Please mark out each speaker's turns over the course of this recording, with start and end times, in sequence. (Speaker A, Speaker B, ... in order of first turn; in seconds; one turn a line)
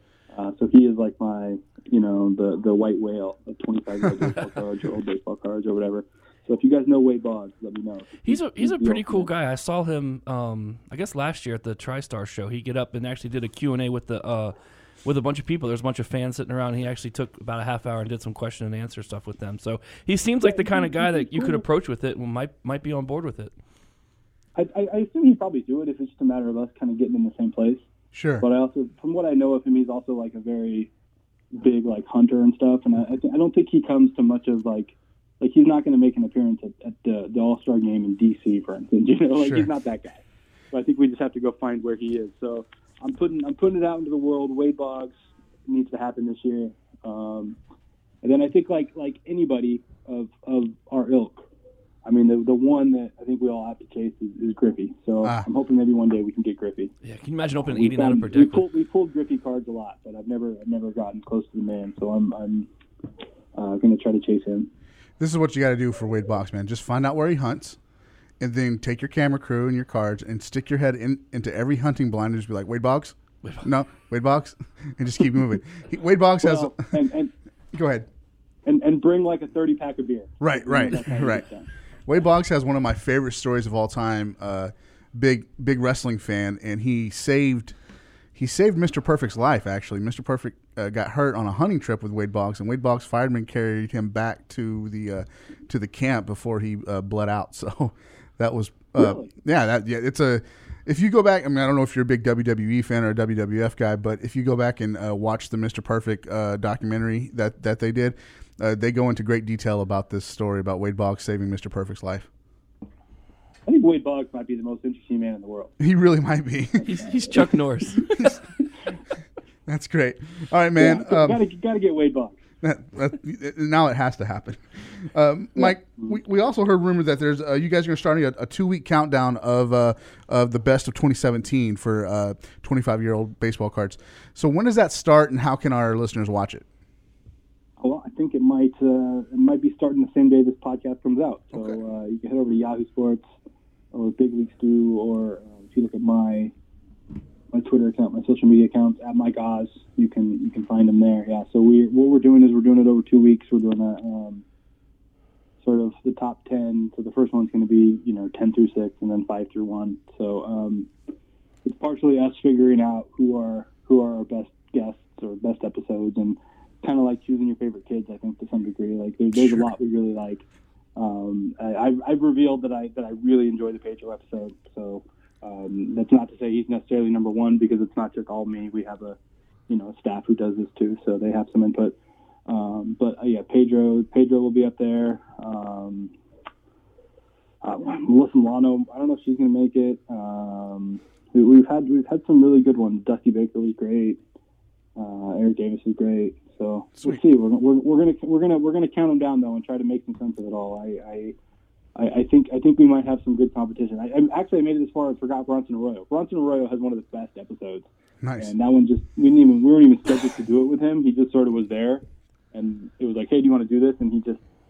Speaker A: 0.3-9.3
Speaker B: 8.2-23.5
Speaker A: 20.4-21.6
Speaker A: 24.6-27.8
Speaker C: 28.1-28.5
Speaker A: 28.4-30.9
Speaker A: 31.5-45.1
Speaker C: 39.4-39.7
Speaker A: 45.7-47.6
Speaker A: 48.2-51.4
Speaker A: 52.0-56.9
Speaker B: 57.0-58.7
Speaker A: 57.6-62.7
Speaker A: 63.5-64.7
Speaker C: 65.2-67.8
Speaker C: 68.4-76.8
Speaker A: 76.4-77.3
Speaker C: 77.7-78.1
Speaker A: 78.7-81.7
Speaker C: 80.4-81.5
Speaker C: 82.1-87.8
Speaker C: 88.3-112.3
Speaker A: 99.0-99.3
Speaker A: 113.7-115.7
Speaker C: 115.8-117.0
Speaker B: 116.8-118.4
Speaker C: 119.7-121.4
Speaker A: 120.8-122.4
Speaker C: 122.6-136.7
Speaker A: 125.6-125.9
Speaker A: 137.8-143.2
Speaker A: 143.9-146.5
Speaker A: 147.5-154.4
Speaker A: 155.6-160.9
Speaker A: 161.7-170.4
Speaker C: 169.3-169.7
Speaker A: 171.0-179.2
Speaker A: 179.7-182.0
Speaker A: 182.5-186.1
Speaker A: 187.6-194.2
Speaker A: 195.0-201.3
Speaker A: 201.9-214.4
Speaker C: 208.2-208.5